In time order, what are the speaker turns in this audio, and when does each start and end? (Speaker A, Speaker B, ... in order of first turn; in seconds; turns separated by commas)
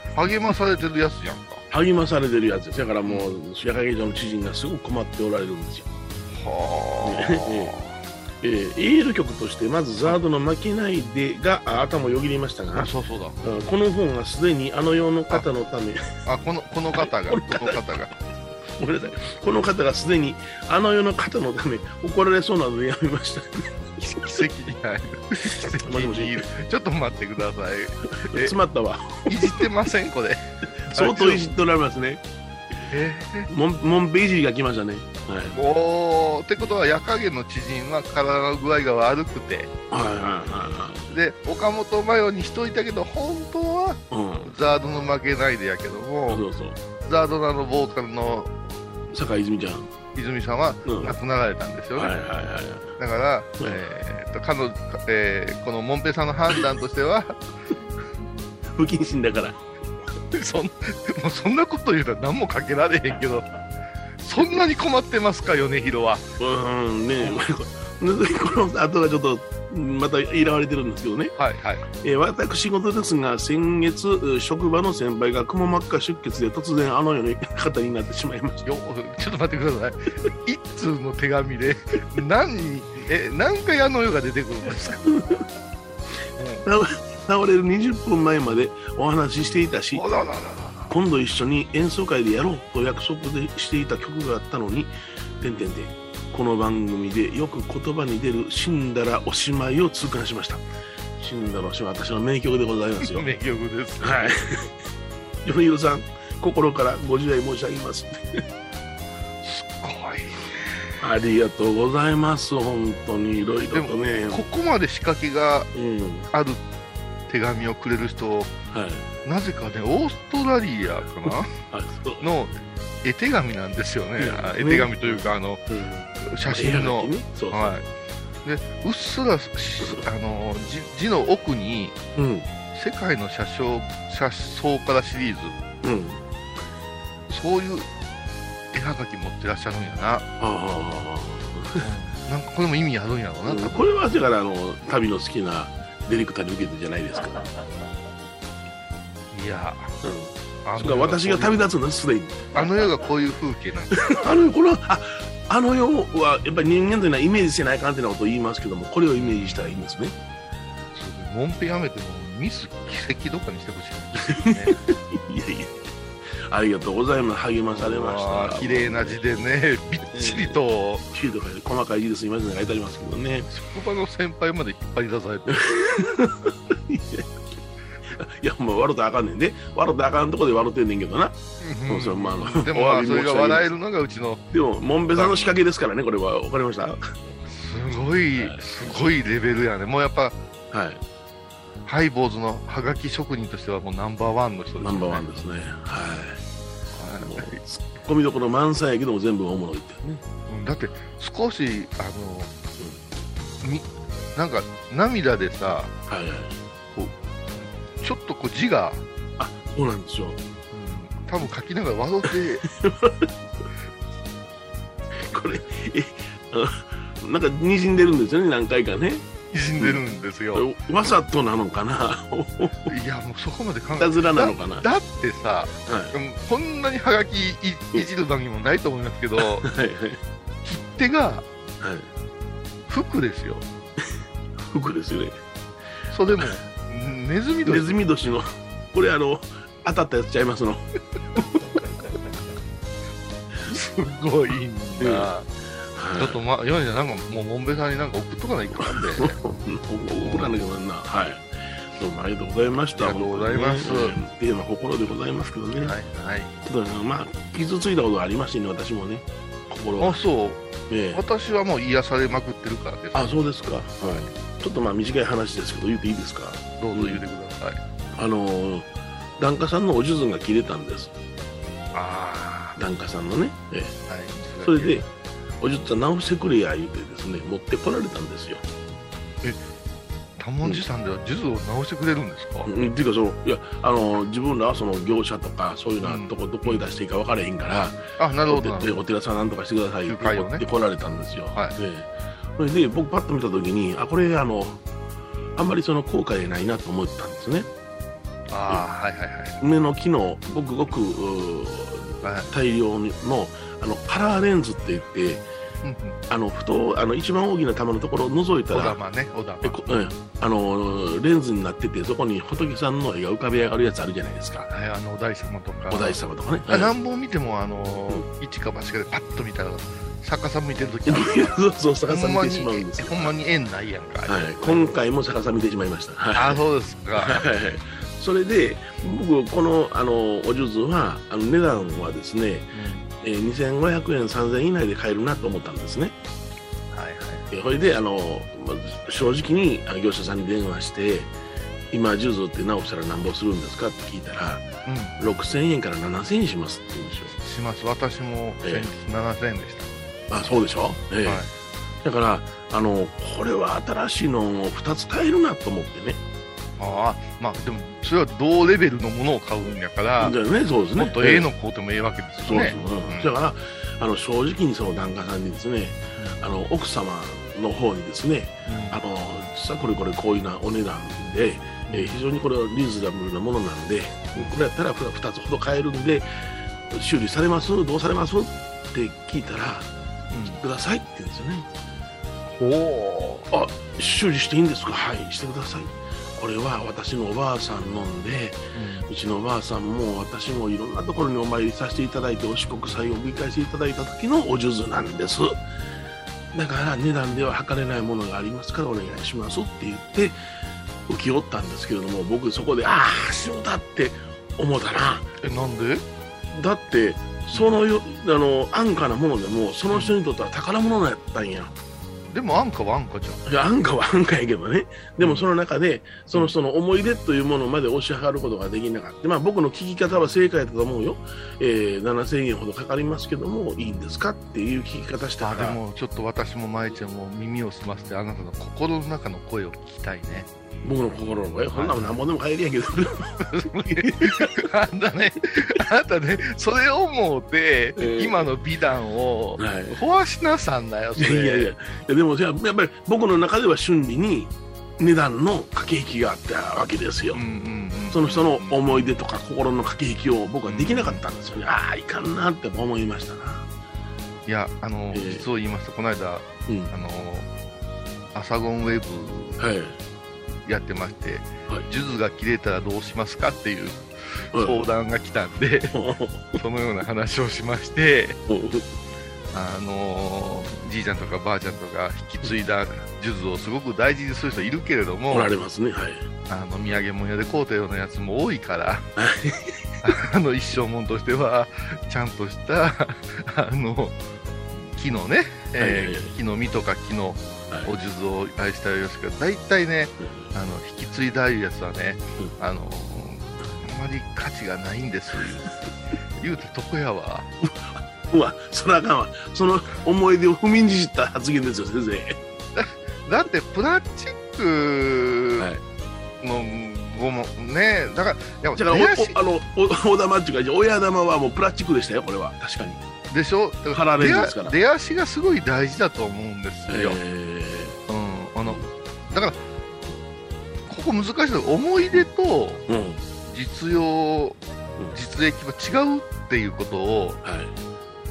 Speaker A: 0.1-1.6, Speaker B: 1.7-5.9, Speaker A: 6.3-8.0, Speaker B: 7.0-7.7, Speaker B: 8.4-12.9, Speaker A: 12.7-13.4, Speaker B: 13.4-16.1, Speaker A: 16.2-18.1, Speaker B: 16.9-17.9, Speaker B: 18.8-23.9, Speaker A: 24.0-28.6, Speaker B: 25.8-26.5, Speaker B: 28.2-29.6, Speaker A: 29.3-31.4, Speaker B: 30.9-32.2, Speaker A: 32.9-33.5, Speaker B: 33.5-35.6, Speaker A: 35.5-39.7, Speaker B: 39.9-41.1, Speaker A: 41.1-46.4, Speaker B: 44.1-44.5, Speaker B: 46.3-46.8, Speaker A: 47.0-48.5, Speaker B: 49.1-49.9, Speaker A: 50.1-52.2, Speaker B: 50.9-51.2, Speaker B: 51.9-53.0, Speaker A: 53.0-57.4, Speaker B: 58.8-59.6, Speaker A: 60.3-63.5, Speaker A: 64.2-66.2, Speaker B: 66.4-71.3, Speaker A: 71.4-71.8, Speaker B: 72.0-78.7, Speaker A: 78.7-85.1, Speaker B: 85.1-85.4, Speaker A: 86.4-86.7, Speaker B: 86.7-90.0, Speaker A: 89.9-90.9, Speaker B: 90.9-100.6, Speaker B: 101.2-103.3, Speaker A: 103.0-104.4, Speaker B: 104.0-104.7, Speaker B: 105.4-108.4, Speaker A: 109.4-110.8, Speaker B: 111.0-114.4, Speaker A: 113.7-115.7, Speaker B: 115.8-116.3, Speaker A: 116.3-116.6, Speaker A: 117.3-118.5, Speaker B: 118.7-119.1, Speaker A: 119.2-121.5, Speaker B: 121.7-122.2, Speaker A: 122.2-125.6, Speaker B: 124.2-127.8, Speaker A: 126.2-127.9, Speaker A: 128.4-132.0, Speaker B: 132.2-132.5, Speaker A: 132.7-135.6, Speaker B: 135.8-136.2, Speaker A: 137.3-137.9, Speaker A: 138.7-140.2, Speaker B: 140.4-141.9, Speaker A: 141.8-143.8, Speaker B: 143.4-147.5, Speaker A: 149.3-149.9, Speaker B: 150.0-152.7, Speaker A: 150.7-151.6, Speaker A: 152.5-154.2, Speaker B: 153.9-160.2, Speaker A: 159.2-159.8, Speaker A: 160.9-164.8, Speaker B: 164.2-165.8, Speaker B: 166.3-169.4, Speaker A: 167.7-171.1, Speaker B: 170.1-170.6, Speaker B: 171.1-173.5, Speaker A: 173.5-175.7, Speaker B: 175.5-177.3, Speaker B: 178.1-181.3, Speaker A: 181.6-184.4, Speaker B: 181.9-183.7, Speaker B: 184.5-187.3, Speaker A: 185.1-185.6, Speaker A: 187.5-190.3, Speaker B: 188.3-189.1, Speaker B: 190.7-191.0, Speaker A: 191.8-195.3, Speaker B: 194.8-196.4, Speaker A: 196.9-197.6, Speaker B: 197.2-200.2, Speaker A: 200.5-202.5, Speaker A: 203.6-205.9, Speaker B: 206.1-206.6, Speaker A: 208.0-209.0, Speaker B: 209.4-210.4, Speaker A: 210.7-212.6, Speaker B: 212.6-213.3, Speaker B: 215.2-219.3, Speaker A: 219.5-220.7, Speaker B: 220.5-222.9, Speaker A: 222.9-229.7, Speaker B: 224.0-224.8, Speaker B: 225.8-226.2, Speaker B: 229.4-230.2, Speaker A: 230.7-231.4, Speaker B: 231.8-232.1, Speaker A: 232.9-233.7, Speaker B: 234.6-235.4, Speaker A: 236.1-238.0, Speaker B: 237.7-241.8, Speaker A: 243.7-245.5, Speaker B: 245.0-245.3, Speaker B: 245.9-246.4, Speaker A: 246.2-249.4, Speaker B: 248.8-255.9, Speaker A: 250.2-250.6, Speaker A: 252.9-254.2, Speaker A: 255.8-256.5, Speaker B: 256.6-260.2, Speaker A: 260.0-260.6, Speaker B: 260.9-261.2, Speaker A: 261.1-263.3, Speaker B: 263.1-267.2, Speaker A: 264.0-264.3, Speaker A: 266.8-267.8, Speaker B: 268.1-271.1, Speaker A: 271.9-272.8, Speaker B: 272.8-273.9, Speaker A: 274.1-275.1, Speaker B: 274.6-275.1, Speaker B: 275.6-278.6, Speaker A: 280.4-282.7, Speaker B: 282.6-294.8, Speaker A: 286.0-286.9, Speaker A: 288.2-288.9, Speaker A: 290.1-290.6, Speaker B: 295.6-297.7, Speaker A: 298.5-299.6, Speaker B: 299.6-305.4, Speaker A: 302.2-302.5, Speaker A: 305.8-306.2, Speaker B: 306.3-309.0, Speaker A: 308.7-309.9, Speaker B: 309.6-314.7, Speaker A: 314.7-324.9, Speaker B: 315.9-316.9, Speaker B: 321.1-323.3, Speaker B: 324.3-326.6, Speaker A: 326.3-327.4, Speaker B: 327.1-336.2, Speaker A: 332.7-333.1, Speaker A: 336.9-337.4, Speaker B: 337.5-341.3, Speaker B: 341.9-344.7, Speaker A: 344.9-345.1, Speaker B: 345.2-347.3, Speaker A: 347.4-349.9, Speaker B: 348.6-348.9, Speaker B: 350.3-351.4, Speaker A: 351.2-351.5, Speaker B: 352.0-356.2, Speaker A: 356.8-360.3, Speaker B: 360.2-361.5, Speaker A: 361.0-363.3, Speaker B: 362.4-376.3, Speaker A: 368.7-369.0, Speaker A: 371.9-372.2, Speaker B: 376.9-379.9, Speaker A: 380.3-380.6, Speaker B: 380.4-381.7, Speaker A: 382.5-383.5, Speaker B: 383.5-395.6, Speaker A: 388.7-389.1, Speaker B: 396.5-400.4, Speaker B: 401.1-405.3, Speaker A: 405.4-406.0, Speaker B: 406.5-411.8, Speaker A: 412.3-413.4, Speaker B: 413.4-425.8, Speaker A: 415.2-415.4, Speaker A: 425.4-430.5, Speaker B: 430.8-434.7, Speaker A: 431.7-432.2, Speaker A: 433.4-441.7, Speaker B: 437.9-438.5, Speaker B: 439.6-439.9, Speaker B: 441.2-447.4, Speaker A: 447.3-449.1, Speaker B: 448.1-453.7, Speaker A: 450.7-451.2, Speaker A: 454.4-457.5, Speaker B: 455.1-455.4, Speaker B: 456.7-456.9, Speaker A: 458.3-459.6, Speaker B: 459.6-460.0, Speaker A: 460.7-465.9, Speaker B: 464.5-464.9, Speaker B: 465.9-466.6, Speaker A: 466.6-468.4, Speaker B: 468.5-468.9, Speaker A: 469.5-475.5, Speaker B: 475.3-476.3, Speaker A: 476.5-479.1, Speaker B: 479.2-479.8, Speaker A: 480.0-484.2, Speaker A: 484.8-495.7, Speaker B: 485.8-486.3, Speaker B: 490.2-490.5, Speaker B: 495.4-495.7, Speaker A: 496.4-497.5, Speaker B: 497.6-502.4, Speaker A: 502.8-505.7, Speaker B: 505.6-505.8, Speaker A: 506.4-509.4, Speaker B: 508.8-513.0, Speaker A: 513.3-517.2, Speaker B: 513.9-514.8, Speaker B: 516.9-518.0, Speaker A: 518.1-519.6, Speaker A: 520.9-522.8, Speaker B: 522.9-523.2, Speaker A: 523.5-524.6, Speaker A: 525.1-527.4, Speaker B: 527.4-527.8